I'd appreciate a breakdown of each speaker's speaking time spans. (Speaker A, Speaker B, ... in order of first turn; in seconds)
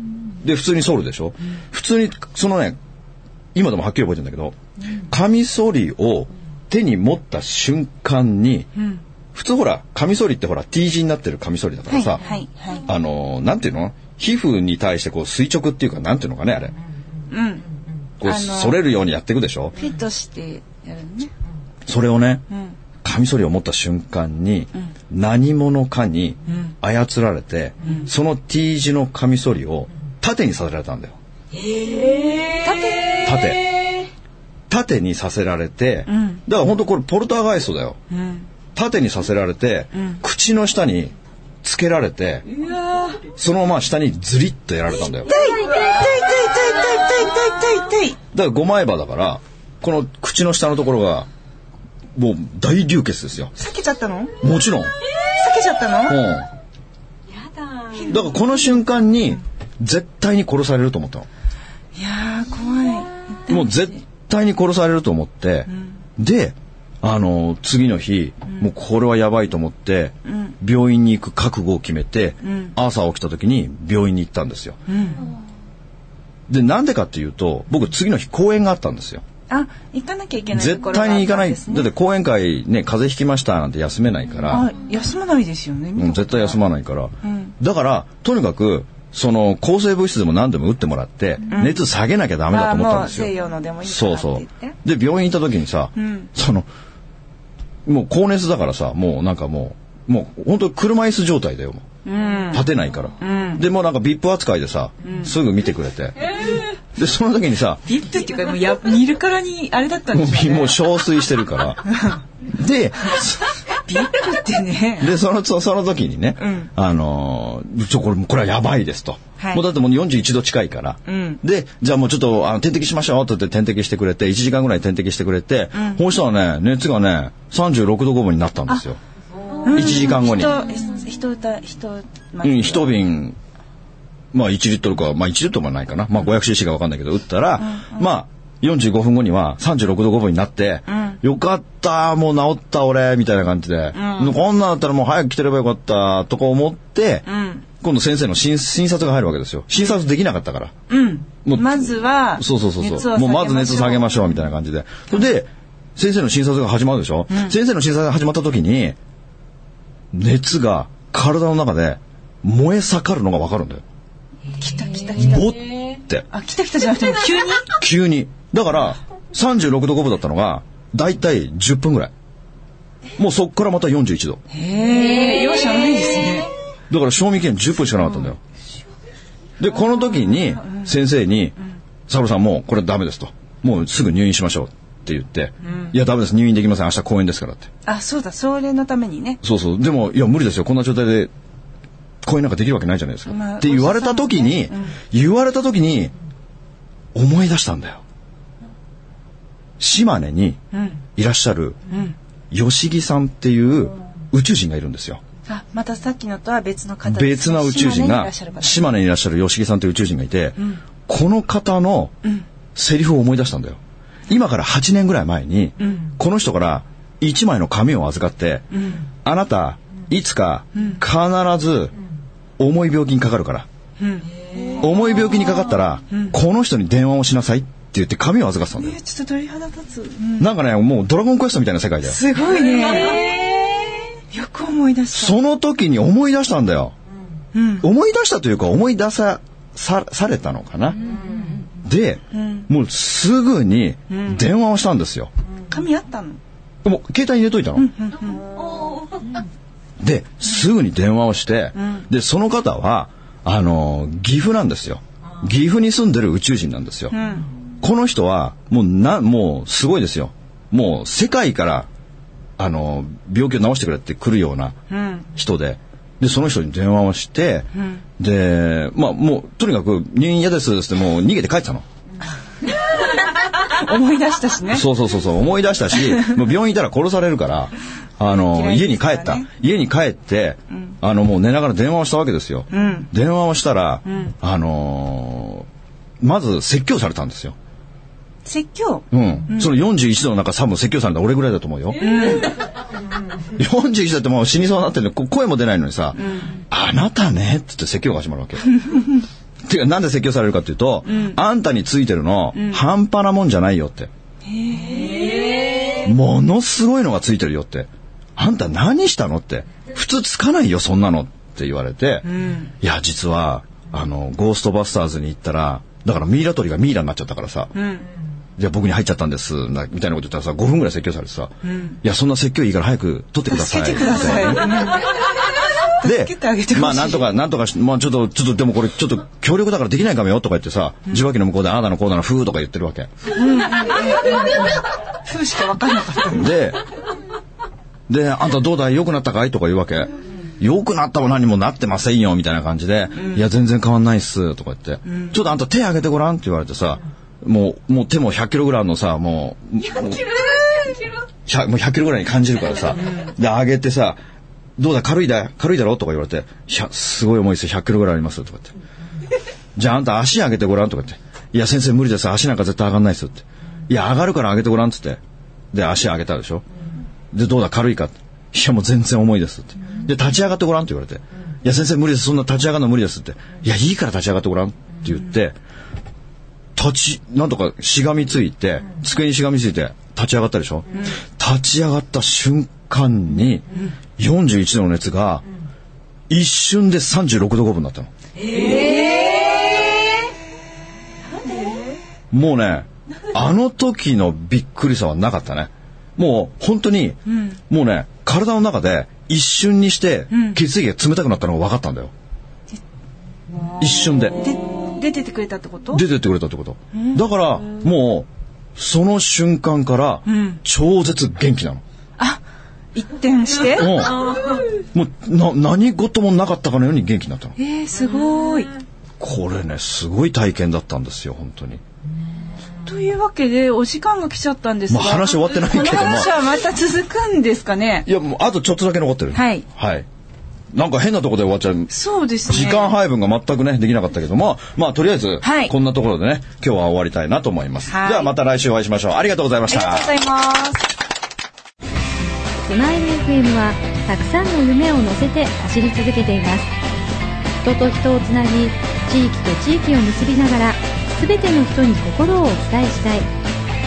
Speaker A: 0.4-2.8, 3.5-4.6, 5.1-8.7, 9.3-12.2, 12.8-16.8, 18.2-19.8, 21.9-22.4, 23.0-31.2, 33.2-33.8, 34.7-38.0, 38.8-42.5, 43.3-45.3, 48.3-51.3, 52.1-53.5, 54.4-54.9, 56.1-56.5, 58.1-61.3, 63.5-74.8, 76.5-79.2, 80.5-84.7, 86.0-93.3, 93.8-96.7, 97.8-101.9, 102.5-106.4, 106.9-107.8, 110.1-112.0, 112.5-113.5, 115.0-129.0, 129.7-130.5, 132.4-133.4, 134.3-147.3, 147.8-150.7, 151.4-159.0, 160.1-163.8, 165.1-166.2, 167.7-172.1, 173.2-174.4, 176.9-178.4, 179.6-181.6, 182.1-187.7, 189.4-191.3, 192.2-196.1, 197.2-198.0, 199.8-200.6, 201.2-201.8, 202.5-205.2, 207.1-212.2, 212.8-218.7, 219.2-221.9, 222.6-223.7, 224.8-229.0, 230.4-232.2, 235.1-236.9, 237.8-241.0, 241.8-245.3, 246.8-247.9, 250.0-257.1, 257.8-261.9, 262.6-264.8, 265.3-271.9, 274.7-285.7, 286.2-287.6, 289.1-292.4, 293.5-298.8, 299.7-304.1, 305.9-312.3, 312.8-317.8, 318.6-325.0, 326.0-333.1, 336.3-336.8, 338.1-350.9, 351.5-354.2, 354.8-358.8, 359.8-365.2, 365.7-366.7, 367.3-375.6, 376.8-383.6, 384.2-385.5, 386.3-388.1, 392.3-402.1, 403.8-404.4, 405.9-411.8, 413.8-417.6, 419.2-421.8, 424.9-426.4, 428.1-430.1, 430.7-431.9, 432.5-440.1
Speaker B: 8.8-9.0, 11.9-12.8, 17.3-17.7, 18.2-18.8, 19.8-21.3, 22.5-22.8, 26.5-26.7, 27.8-28.1, 31.8-33.3, 36.1-36.4, 38.1-38.5, 39.9-40.2, 42.6-43.2, 45.2-48.2, 53.5-54.4, 55.3-56.2, 57.9-58.3, 62.0-63.8, 65.7-66.0, 70.2-70.5, 72.4-72.8, 74.9-75.3, 79.5-81.9, 84.5-86.6, 87.2-87.5, 91.5-91.8, 92.5-94.8, 96.0-96.3, 102.0-103.7, 105.0-105.3, 107.9-110.8, 111.9-112.2, 113.8-115.2, 116.4-116.7, 119.4-119.6, 121.1-121.4, 125.7-126.0, 129.6-133.0, 137.6-138.1, 140.9-141.2, 143.9-144.4, 147.3-147.7, 150.9-154.2, 164.5-165.5, 166.3-167.8, 174.5-176.5, 180.6-180.9, 185.7-185.9, 187.8-189.4, 193.3-195.0, 200.7-201.0, 201.9-202.2, 205.5-208.9, 215.8-216.1, 218.7-219.1, 220.8-221.0, 224.0-224.8, 228.8-230.5, 232.1-235.4, 237.5-237.9, 242.3-242.7, 244.1-244.4, 245.7-246.4, 247.8-248.5, 251.8-252.1, 257.1-257.5, 264.9-265.3, 267.8-268.0, 273.1-274.9, 278.3-279.5, 282.7-283.1, 284.1-284.3, 288.4-289.7, 292.0-292.5, 296.2-296.6, 298.7-299.2, 301.1-301.4, 302.5-302.8, 304.5-305.8, 312.2-312.7, 317.8-318.1, 321.6-322.0, 323.5-325.2, 325.9-327.3, 333.3-336.5, 343.2-343.4, 345.1-345.4, 388.5-389.4, 391.4-391.8, 397.3-397.6, 400.3-400.6, 404.4-406.1, 406.9-407.2, 410.3-410.6, 412.9-414.0, 417.6-418.7, 422.8-428.1, 429.3-429.7, 431.9-432.9, 435.4-435.7, 437.9-438.3, 439.7-440.9
Speaker C: 442.6-446.7, 447.6-453.3